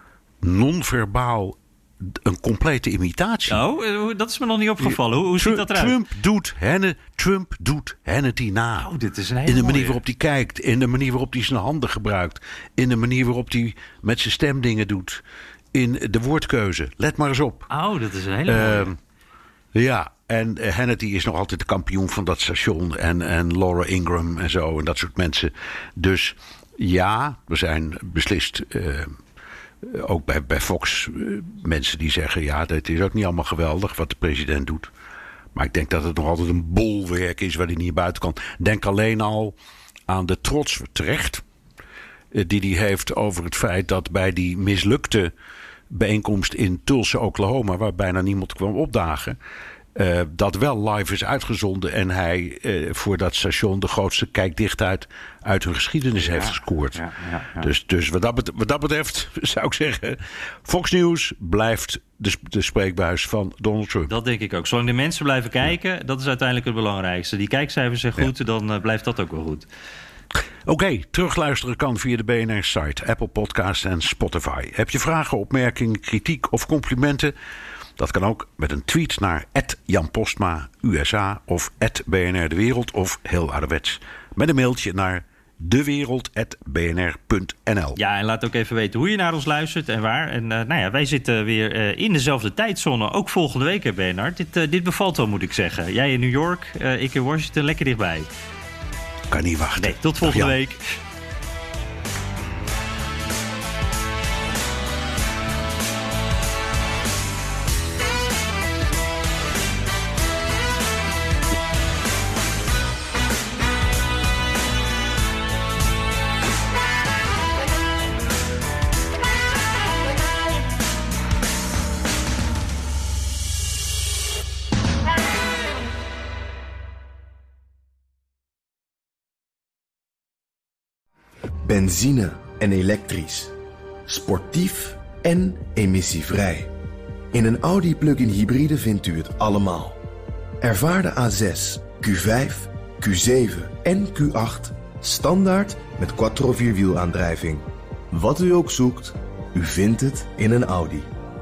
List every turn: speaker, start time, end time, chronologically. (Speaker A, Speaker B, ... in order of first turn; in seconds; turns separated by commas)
Speaker A: 0.4-3.6, Speaker B: 3.5-6.0, Speaker A: 4.8-8.9, Speaker B: 8.8-10.0, Speaker A: 9.4-15.2, Speaker A: 15.7-17.7, Speaker B: 17.7-18.9, Speaker A: 18.5-19.0, Speaker A: 19.7-29.1, Speaker A: 29.8-34.9, Speaker A: 35.5-39.5, Speaker A: 40.1-41.4, Speaker A: 42.3-45.3, Speaker A: 45.9-49.4, Speaker A: 49.9-57.0, Speaker B: 56.2-57.7, Speaker A: 57.6-64.1, Speaker B: 64.1-69.7, Speaker A: 70.7-77.3, Speaker A: 78.0-88.0, Speaker B: 88.0-98.3, Speaker A: 99.3-100.5, Speaker B: 99.8-101.0, Speaker C: 131.6-133.5, Speaker C: 134.1-136.7, Speaker C: 137.3-140.0, Speaker C: 140.6-151.1